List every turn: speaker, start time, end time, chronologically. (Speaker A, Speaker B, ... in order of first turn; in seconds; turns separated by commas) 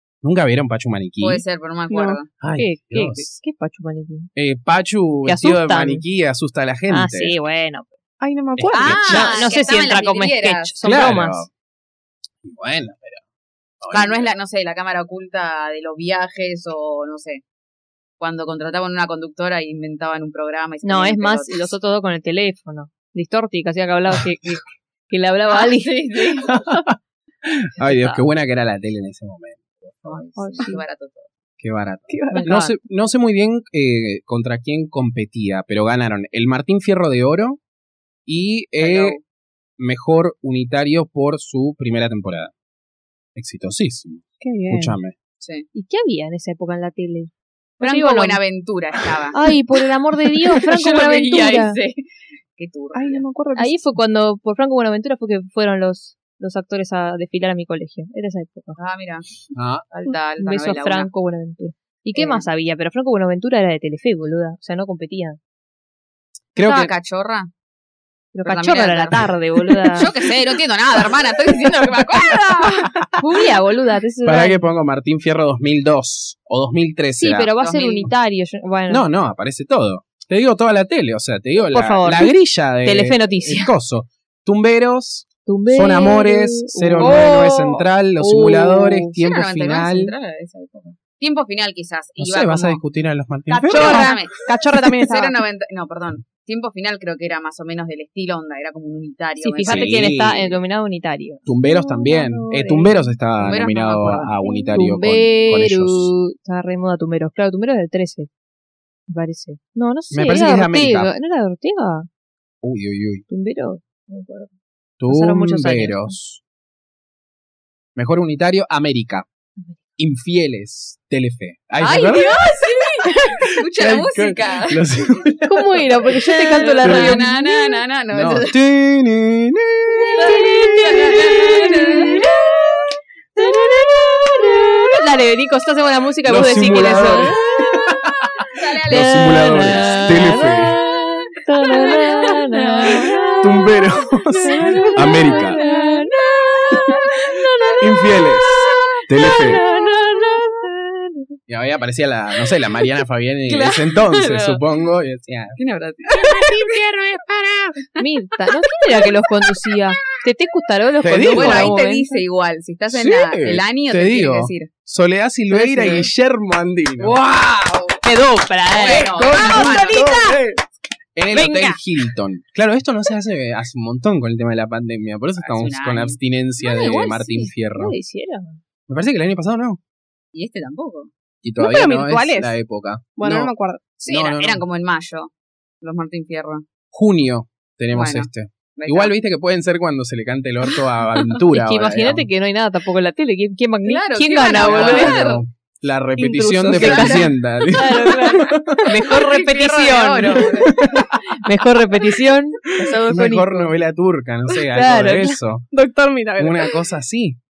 Speaker A: 0.2-1.4, Speaker B: 1.2-2.3, Speaker C: 1.9-2.2, Speaker A: 2.4-3.4, Speaker D: 2.6-4.3, Speaker A: 4.4-7.3, Speaker D: 5.3-6.0, Speaker D: 6.9-7.9, Speaker C: 8.2-9.3, Speaker A: 8.6-9.3, Speaker B: 8.7-10.7, Speaker D: 9.1-11.5, Speaker A: 10.8-11.5, Speaker A: 12.4-13.2, Speaker A: 13.8-14.3, Speaker B: 13.9-17.4, Speaker B: 18.2-21.7, Speaker D: 20.8-26.0, Speaker B: 25.5-26.5, Speaker A: 26.4-30.2, Speaker D: 27.8-28.2, Speaker B: 30.1-31.3, Speaker D: 30.4-30.8, Speaker A: 31.6-37.6, Speaker C: 32.1-32.5, Speaker D: 32.3-32.8, Speaker A: 38.3-39.2, Speaker B: 38.8-39.2, Speaker A: 39.8-42.5, Speaker A: 43.4-45.1, Speaker C: 44.4-45.0, Speaker B: 45.4-45.7, Speaker D: 45.7-48.4, Speaker B: 47.8-49.4, Speaker D: 49.3-51.8, Speaker B: 50.6-52.0, Speaker B: 52.6-53.2, Speaker C: 52.9-53.8, Speaker D: 53.6-58.8, Speaker B: 58.8-61.1, Speaker A: 59.5-59.9, Speaker D: 60.1-65.4, Speaker B: 62.2-62.5, Speaker A: 66.5-66.9, Speaker B: 66.6-67.5, Speaker D: 68.3-70.1, Speaker B: 68.5-69.3, Speaker A: 69.8-70.1, Speaker B: 70.0-73.0, Speaker A: 71.5-72.4, Speaker A: 72.9-73.2, Speaker D: 73.2-74.6, Speaker A: 74.2-77.5, Speaker D: 77.2-79.0, Speaker B: 77.6-78.1, Speaker A: 78.9-90.1, Speaker D: 81.7-83.7, Speaker D: 85.5-89.2, Speaker C: 87.0-87.3, Speaker B: 89.2-92.8, Speaker A: 92.2-94.1, Speaker C: 93.5-95.4, Speaker B: 93.7-94.4, Speaker B: 95.0-100.1, Speaker D: 99.4-101.5, Speaker A: 99.6-100.6, Speaker A: 101.5-106.1, Speaker C: 101.7-102.8, Speaker D: 102.5-102.9, Speaker B: 103.4-104.4, Speaker D: 104.7-108.3, Speaker D: 109.1-112.1, Speaker A: 110.1-111.1, Speaker A: 112.6-113.2, Speaker D: 113.3-114.5, Speaker A: 115.0-116.4, Speaker D: 115.1-116.2, Speaker A: 118.0-119.3, Speaker A: 120.0-122.5, Speaker B: 121.8-124.8, Speaker A: 123.4-127.2, Speaker D: 125.5-127.8, Speaker B: 126.5-128.6, Speaker A: 128.1-131.3, Speaker D: 130.2-132.3, Speaker B: 130.2-132.4, Speaker D: 133.4-137.4, Speaker A: 136.2-140.8, Speaker B: 138.5-140.2, Speaker D: 138.9-143.7, Speaker B: 141.7-143.4, Speaker A: 143.4-145.6, Speaker D: 144.4-151.3, Speaker B: 144.7-147.8, Speaker A: 147.8-149.6, Speaker A: 151.5-155.6, Speaker B: 153.5-154.6, Speaker B: 155.6-156.8, Speaker A: 156.1-157.8, Speaker D: 158.0-162.2, Speaker B: 159.0-159.8, Speaker A: 161.0-161.7, Speaker B: 161.3-164.7, Speaker A: 162.9-167.2, Speaker D: 165.5-166.1, Speaker B: 167.0-167.9, Speaker D: 168.0-169.7, Speaker B: 168.7-170.1, Speaker A: 168.8-170.6, Speaker C: 169.4-170.4, Speaker A: 171.2-178.0, Speaker D: 171.3-171.8, Speaker B: 175.4-176.2, Speaker D: 176.6-178.6, Speaker A: 178.9-179.8, Speaker B: 180.3-181.1, Speaker A: 181.4-183.5, Speaker C: 181.6-182.6, Speaker C: 183.2-183.8, Speaker B: 184.0-186.7, Speaker A: 184.1-184.6, Speaker A: 186.9-192.3, Speaker B: 187.9-189.1, Speaker D: 191.5-195.2, Speaker B: 193.8-195.4, Speaker A: 194.6-198.9, Speaker D: 196.2-203.7, Speaker B: 196.8-197.3, Speaker B: 199.1-200.9, Speaker A: 200.4-201.3, Speaker A: 202.7-205.7, Speaker C: 202.8-203.4, Speaker D: 204.7-205.4, Speaker C: 205.7-206.8, Speaker A: 206.4-207.4